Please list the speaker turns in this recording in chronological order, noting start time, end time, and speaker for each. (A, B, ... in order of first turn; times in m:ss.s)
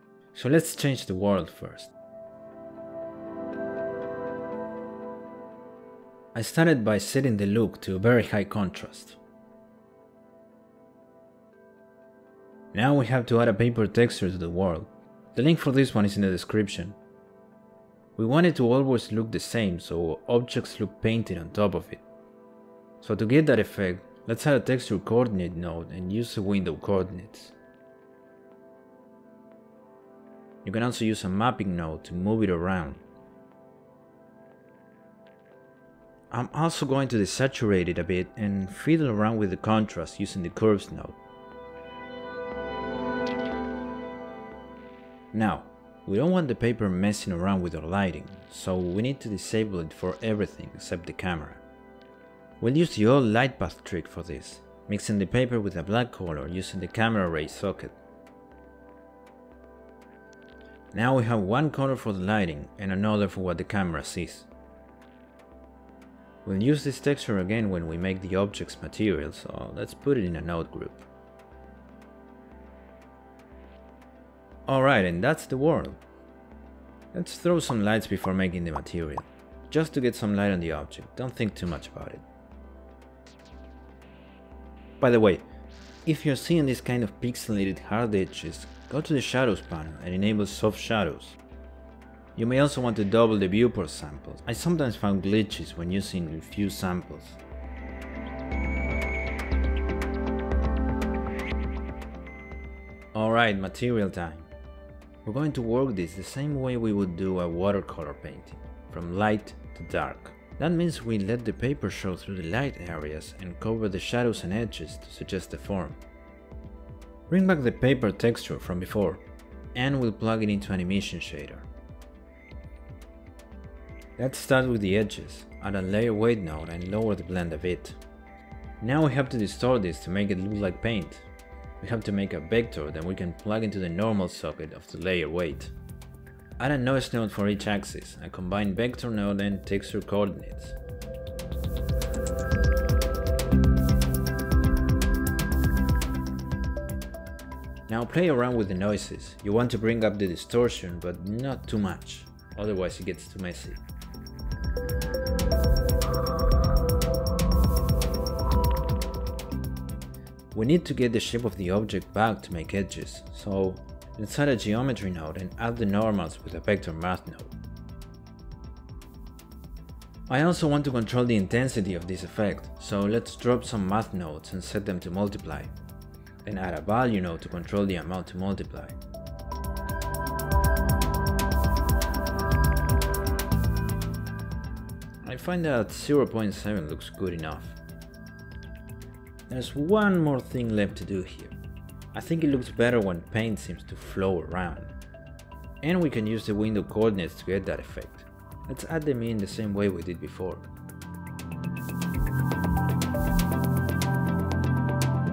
0:00.3-0:01.9 A
0:06.3-0:09.2 A
0:12.7-0:17.0 A
0:18.2-0:22.0 A
0:23.0-0:27.5 A
0:30.6-0:33.0 A
0:36.3-0:41.2 A
0:45.3-0:51.6 A
0:52.6-0:58.0 A
1:00.9-1:04.5 A
1:06.4-1:11.1 A
1:14.7-1:16.0 A
1:17.1-1:22.2 A
1:25.0-1:25.4 A
1:26.0-1:31.4 A
1:32.4-1:37.4 A
1:43.1-1:44.5 A
1:45.2-1:56.0 A
1:57.3-1:59.2 A
1:59.7-2:01.7 A
2:04.2-2:08.0 A
2:08.8-2:11.2 A
2:11.8-2:15.7 A
2:16.6-2:20.8 A
2:27.9-2:33.8 A
2:40.5-2:47.5 A
2:50.3-2:55.7 A
2:56.4-2:59.0 A
3:05.2-3:07.8 A
3:09.5-3:11.5 A
3:12.1-3:14.9 A
3:15.8-3:20.7 A